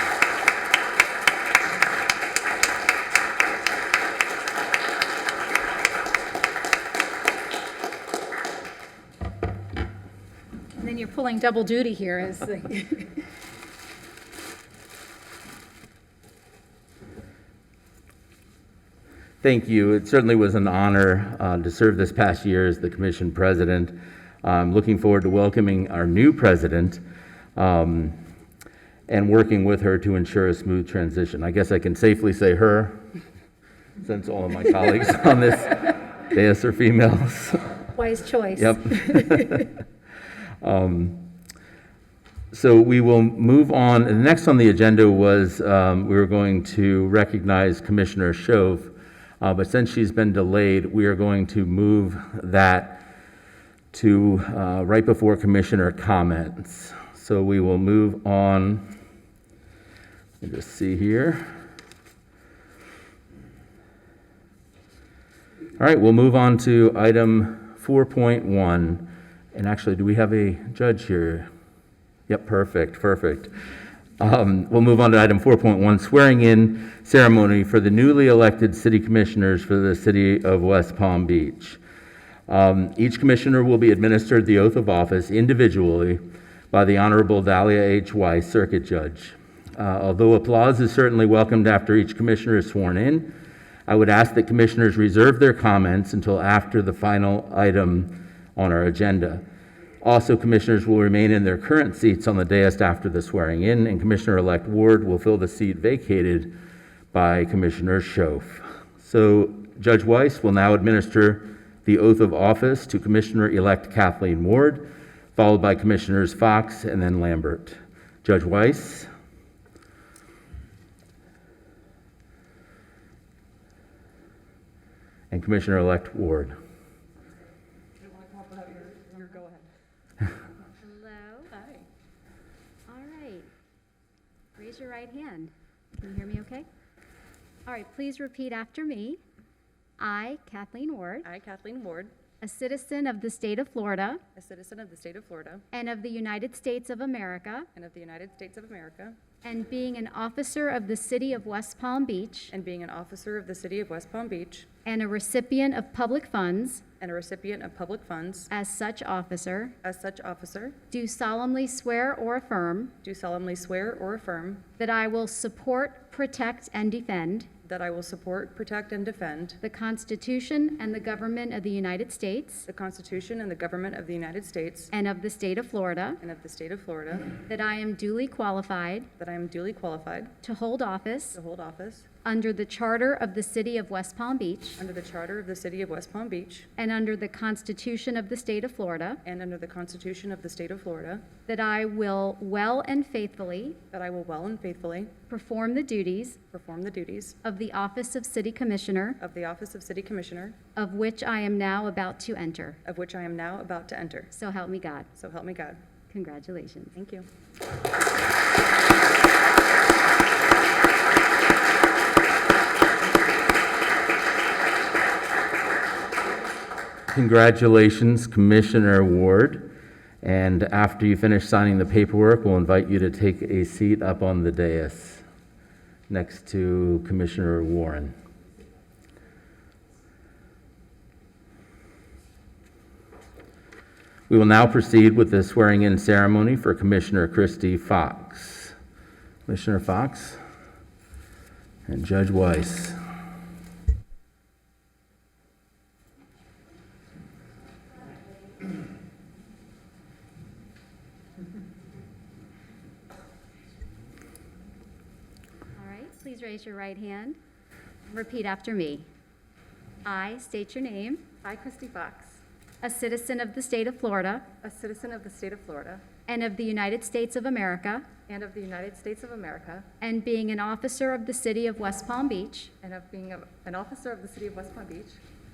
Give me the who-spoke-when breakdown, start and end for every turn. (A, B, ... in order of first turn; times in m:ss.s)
0:10.8-0:13.2 A
0:19.4-0:27.0 B
0:27.6-0:28.2 B
0:29.1-0:33.0 B
0:34.0-0:37.7 B
0:37.9-0:39.4 A
0:38.6-0:39.7 B
0:40.6-0:41.3 B
0:42.5-0:53.1 B
0:53.9-0:58.9 B
1:00.4-1:01.5 B
1:05.8-1:11.5 B
1:12.3-1:13.5 B
1:14.2-1:21.8 B
1:22.5-1:33.3 B
1:33.9-1:39.4 B
1:40.0-1:46.5 B
1:47.1-1:59.1 B
2:05.3-2:06.6 B
2:08.0-2:09.7 C
2:10.8-2:11.5 D
2:11.5-2:11.8 C
2:12.9-2:13.5 D
2:14.6-2:16.6 D
2:17.6-2:19.2 D
2:20.0-2:21.3 D
2:21.2-2:22.1 C
2:22.4-2:24.2 D
2:24.3-2:25.6 C
2:25.7-2:27.7 D
2:27.7-2:29.2 C
2:29.4-2:32.5 D
2:32.5-2:34.7 C
2:34.8-2:36.8 D
2:37.0-2:38.5 C
2:38.5-2:39.7 D
2:39.8-2:40.8 C
2:40.9-2:42.9 D
2:43.0-2:44.6 C
2:44.8-2:47.5 D
2:47.6-2:49.6 C
2:49.6-2:52.7 D
2:52.7-2:54.9 C
2:54.9-2:56.2 D
2:56.2-2:57.4 C
2:57.5-2:59.1 D
2:59.2-3:00.3 C
3:00.4-3:01.4 D
3:01.3-3:02.1 C
3:02.2-3:04.8 D
3:04.8-3:06.7 C
3:06.8-3:09.2 D
3:09.2-3:11.2 C
3:11.5-3:13.8 D
3:13.9-3:15.1 C
3:15.3-3:16.4 D
3:16.5-3:17.4 C
3:17.4-3:19.2 D
3:19.2-3:20.6 C
3:20.8-3:22.8 D
3:22.8-3:24.3 C
3:24.3-3:25.1 D
3:25.1-3:25.8 C
3:26.1-3:26.9 D
3:26.9-3:27.3 C
3:37.1-3:45.2 B
3:46.1-3:48.1 B
3:54.3-3:58.7 B
3:59.5-4:00.4 B
4:01.9-4:03.0 B
4:15.7-4:17.4 D
4:18.1-4:19.1 D
4:20.0-4:21.3 D
4:21.4-4:22.4 C
4:22.8-4:24.4 D
4:24.6-4:26.0 C
4:26.3-4:28.1 D
4:28.3-4:29.8 C
4:30.0-4:32.7 D
4:32.8-4:35.2 C